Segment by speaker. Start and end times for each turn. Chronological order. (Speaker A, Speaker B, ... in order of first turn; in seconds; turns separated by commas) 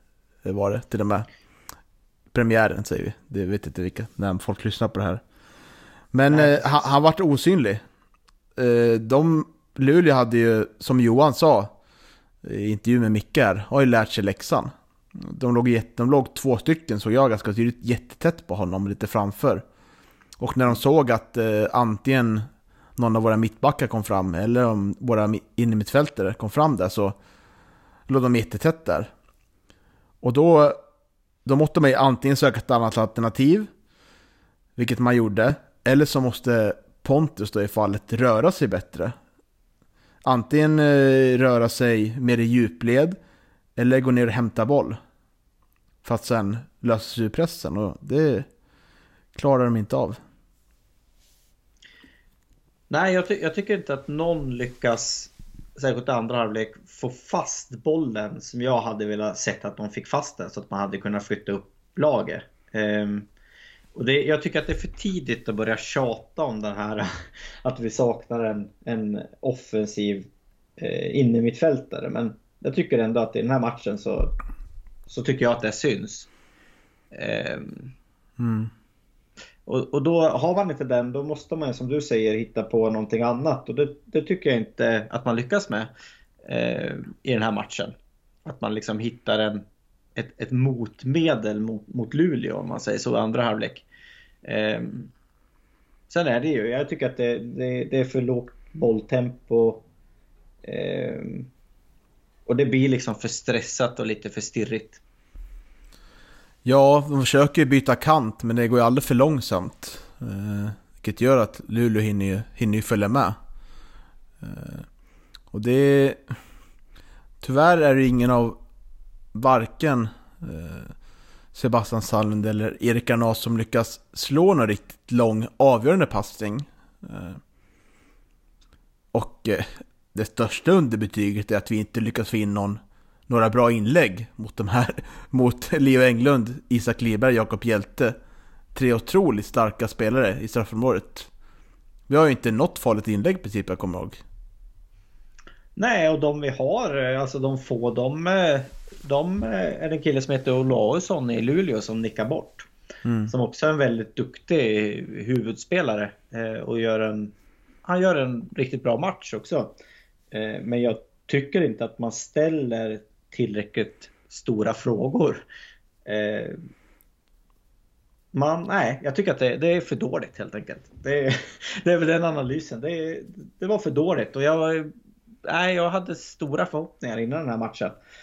Speaker A: 0.4-1.3, Speaker A: 2.3-5.2, Speaker A: 6.1-7.8, Speaker B: 6.3-6.9, Speaker A: 8.6-11.7, Speaker A: 12.4-19.6, Speaker A: 20.4-27.1, Speaker A: 28.1-29.1, Speaker A: 30.2-30.8, Speaker A: 31.4-33.7, Speaker A: 34.8-39.1, Speaker A: 40.2-43.2, Speaker A: 43.8-45.0, Speaker A: 46.0-48.5, Speaker A: 49.3-50.2, Speaker B: 52.9-63.3, Speaker B: 63.9-67.1, Speaker B: 67.6-74.3, Speaker B: 75.1-76.3, Speaker B: 77.1-77.9, Speaker A: 78.4-78.7, Speaker B: 79.7-85.9, Speaker B: 86.4-89.6, Speaker B: 90.2-93.8, Speaker B: 94.4-95.1, Speaker B: 96.1-99.8, Speaker B: 100.6-101.5, Speaker B: 102.5-105.0, Speaker A: 106.6-113.4, Speaker A: 114.4-114.9, Speaker A: 115.5-116.3, Speaker A: 117.4-118.6, Speaker A: 119.3-120.9, Speaker A: 121.5-127.4, Speaker A: 129.1-138.2, Speaker A: 138.7-141.3, Speaker A: 142.1-144.2, Speaker B: 145.8-152.7, Speaker A: 153.0-153.3, Speaker B: 153.3-157.3, Speaker B: 157.8-159.7, Speaker B: 160.3-165.4, Speaker B: 166.1-166.6, Speaker B: 168.3-174.9, Speaker B: 175.5-178.0